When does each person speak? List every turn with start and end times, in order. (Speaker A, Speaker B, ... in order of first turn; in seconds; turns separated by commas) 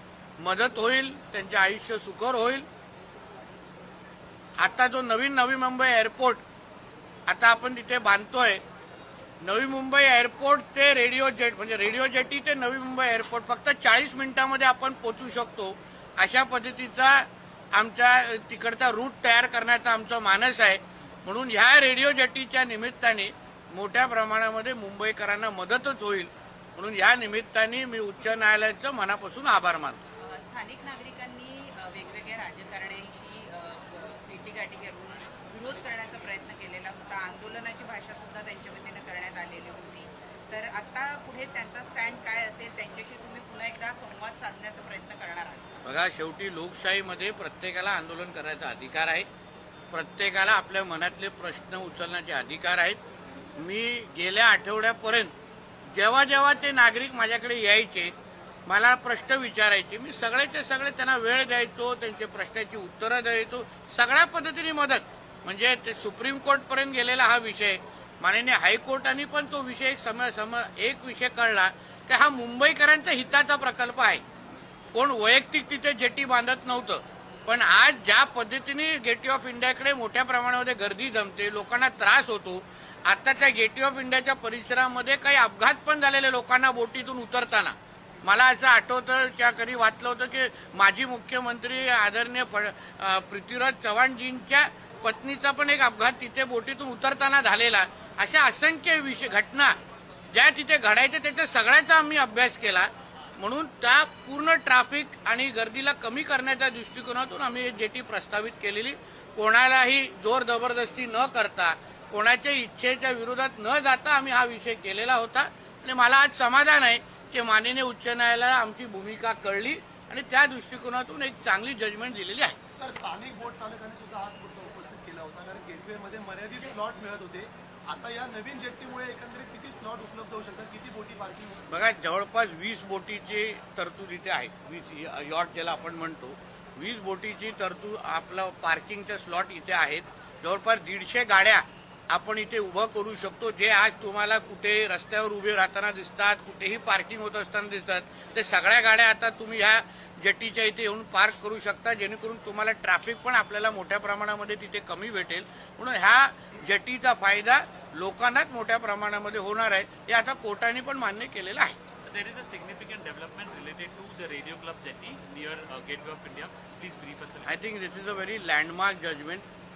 Speaker A: 0.4-2.7, Speaker A: 4.6-6.4, Speaker A: 7.3-8.6, Speaker A: 9.4-30.0, Speaker B: 30.2-45.8, Speaker A: 45.8-49.3, Speaker A: 49.9-53.0, Speaker A: 53.6-55.3, Speaker A: 55.9-58.1, Speaker A: 58.7-74.2, Speaker A: 74.9-99.8, Speaker A: 100.3-122.6, Speaker C: 122.8-131.7, Speaker A: 131.7-161.8, Speaker D: 162.1-167.4, Speaker A: 167.5-169.5